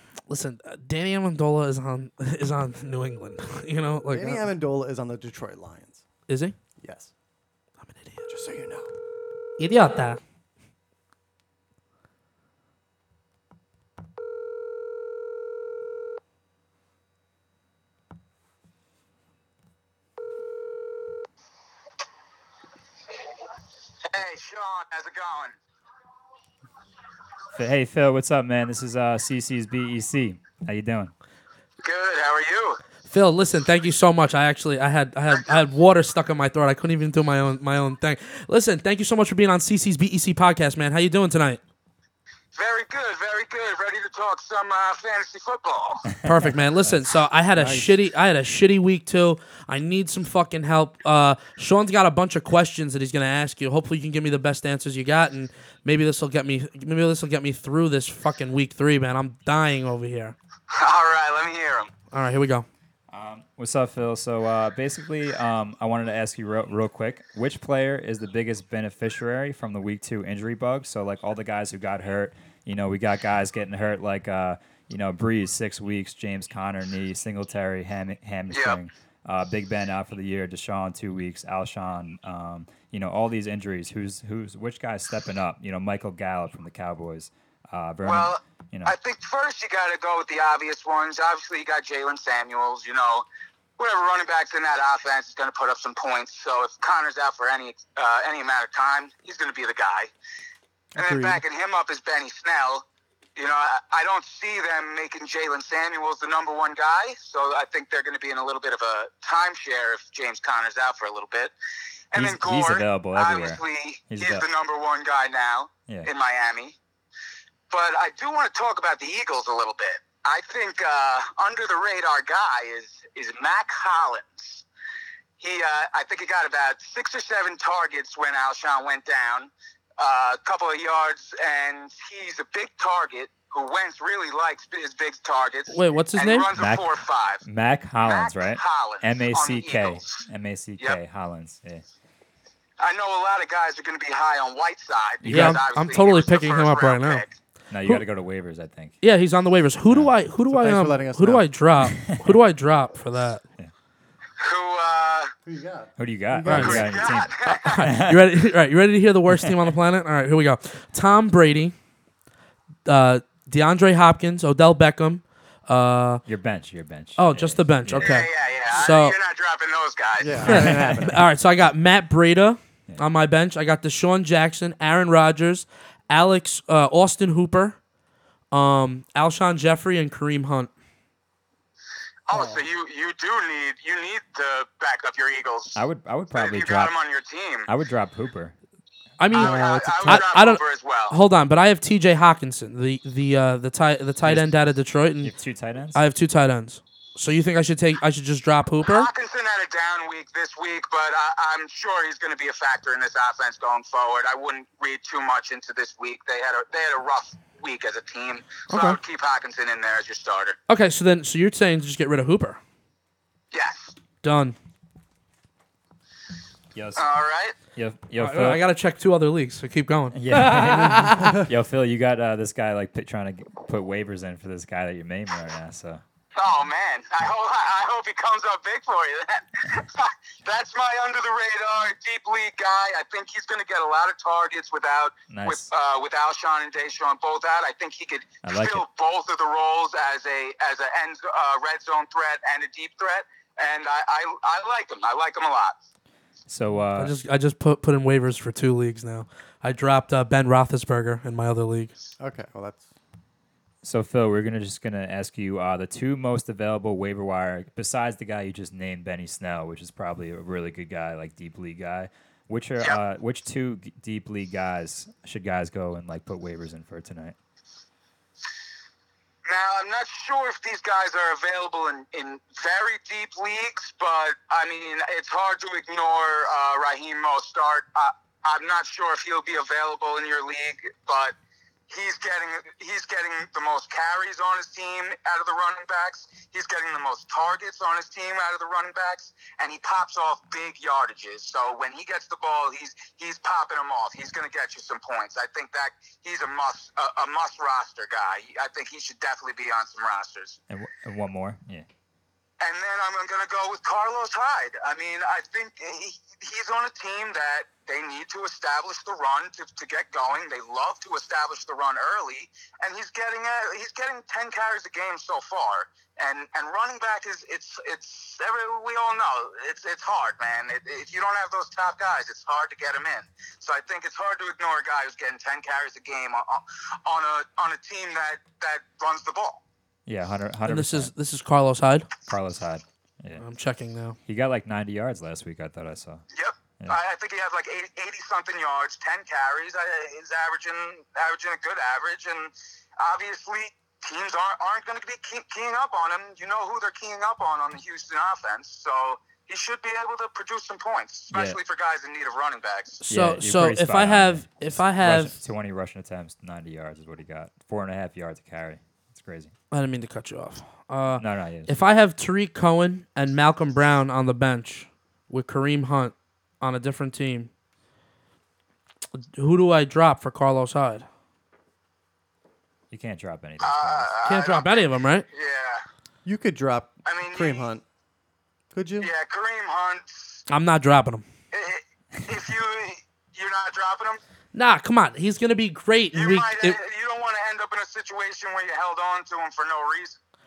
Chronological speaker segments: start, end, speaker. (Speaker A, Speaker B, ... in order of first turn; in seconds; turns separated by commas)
Speaker A: 0.3-4.5, Speaker B: 4.1-6.0, Speaker A: 6.3-6.6, Speaker B: 6.8-7.1, Speaker A: 7.8-8.3, Speaker B: 8.3-8.9, Speaker A: 9.6-10.2, Speaker C: 24.1-25.6, Speaker D: 27.5-31.1, Speaker C: 31.8-32.8, Speaker A: 33.1-41.6, Speaker C: 42.5-46.1, Speaker A: 46.2-60.4, Speaker B: 47.6-47.9, Speaker C: 60.7-61.9, Speaker A: 62.1-62.7, Speaker D: 63.1-89.0, Speaker C: 78.5-78.8, Speaker C: 88.0-93.3, Speaker C: 93.8-100.1, Speaker B: 100.9-101.4, Speaker C: 101.0-102.8, Speaker C: 103.4-111.5, Speaker C: 112.1-116.8, Speaker D: 112.1-114.5, Speaker C: 117.7-124.7, Speaker C: 125.4-137.4, Speaker A: 135.7-136.5, Speaker D: 136.6-136.9, Speaker D: 137.4-141.8, Speaker C: 138.0-140.3, Speaker C: 142.8-147.4, Speaker D: 145.2-145.6, Speaker A: 145.2-147.2, Speaker D: 147.7-149.0, Speaker A: 149.0-153.4, Speaker B: 150.5-151.5, Speaker D: 151.9-152.4, Speaker C: 154.4-155.3, Speaker B: 155.5-157.1, Speaker D: 156.0-158.3, Speaker A: 156.5-156.8, Speaker C: 156.6-157.8, Speaker A: 157.4-161.8, Speaker D: 159.4-159.7, Speaker A: 162.9-166.2, Speaker D: 166.3-168.3, Speaker A: 167.2-169.2, Speaker C: 168.0-170.4, Speaker B: 170.2-171.2, Speaker A: 170.4-177.8, Speaker A: 178.5-180.7, Speaker C: 182.3-185.8, Speaker D: 185.8-186.9, Speaker C: 186.3-187.7, Speaker D: 187.7-188.6, Speaker A: 189.2-195.3, Speaker D: 189.3-190.2, Speaker C: 189.3-191.2, Speaker D: 194.2-194.5, Speaker D: 195.2-196.0, Speaker A: 195.9-199.1, Speaker C: 198.8-210.6, Speaker A: 208.7-209.0, Speaker A: 210.7-212.6, Speaker C: 213.5-214.0, Speaker A: 214.2-214.6, Speaker D: 216.8-217.1, Speaker C: 217.0-217.6, Speaker D: 217.7-218.6, Speaker A: 218.2-221.4, Speaker D: 220.1-226.0, Speaker C: 226.3-245.8, Speaker D: 235.3-235.7, Speaker D: 238.4-238.8, Speaker D: 246.5-247.2, Speaker A: 247.0-251.9, Speaker B: 252.2-252.9, Speaker D: 253.8-267.4, Speaker C: 269.5-281.3, Speaker C: 281.9-300.6, Speaker D: 300.7-301.9, Speaker C: 302.6-329.6, Speaker D: 330.1-331.1, Speaker A: 330.7-332.1, Speaker D: 332.2-333.4, Speaker A: 333.4-334.2, Speaker D: 334.3-336.2, Speaker C: 336.3-353.0, Speaker D: 351.3-351.6, Speaker A: 353.0-355.4, Speaker D: 353.1-359.5, Speaker A: 359.7-367.5, Speaker D: 361.2-361.8, Speaker A: 369.3-371.1, Speaker D: 372.9-374.1, Speaker C: 373.6-375.9, Speaker A: 374.2-375.3, Speaker B: 376.2-377.8, Speaker C: 377.1-377.7, Speaker B: 378.7-379.1, Speaker C: 379.0-380.4, Speaker A: 380.5-381.3, Speaker C: 381.5-384.2, Speaker A: 384.5-386.8, Speaker C: 386.1-390.2